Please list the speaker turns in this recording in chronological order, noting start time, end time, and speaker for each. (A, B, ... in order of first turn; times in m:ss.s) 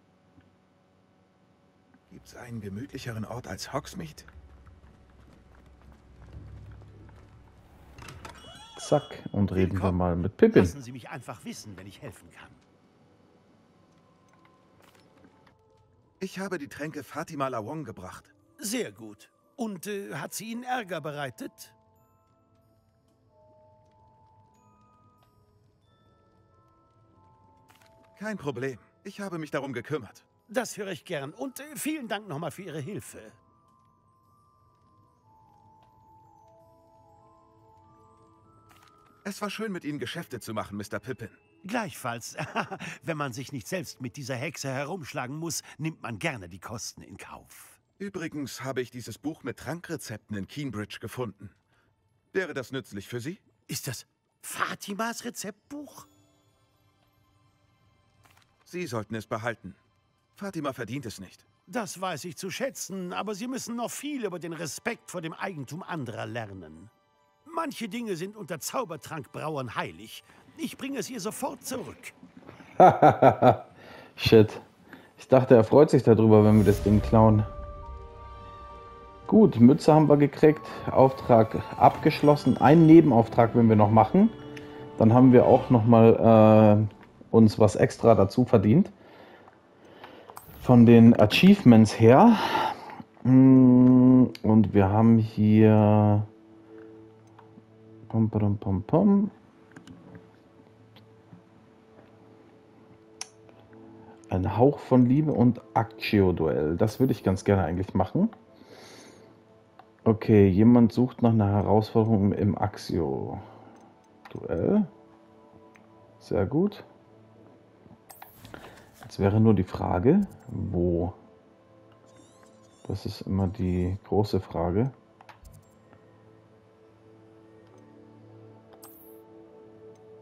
0:02.1-0:04.3 A
0:08.8-0:10.8 B
0:09.5-0:10.0 C
0:10.5-0:12.6 C
0:16.2-0:18.4 A
0:18.6-0:21.7 C
0:28.2-0:30.3 A
0:30.5-0:33.4 C
0:39.2-0:41.4 A
0:41.6-0:47.8 C
0:48.0-0:51.6 A
0:52.3-0:53.5 A
0:53.6-0:56.1 C
0:58.6-0:59.8 A
1:00.4-1:01.5 A
1:01.7-1:06.9 C
1:07.4-1:12.1 C
1:12.8-1:13.6 B
1:14.2-1:14.6 B
1:15.2-1:17.5 B
1:19.3-1:24.4 B
1:25.0-1:28.9 B
1:30.6-1:36.3 B
1:38.1-1:39.3 B
1:44.3-1:48.3 B
1:50.0-1:53.4 B
1:54.3-1:54.9 B
1:56.2-1:56.8 B
1:59.0-2:01.2 B
2:02.8-2:04.9 B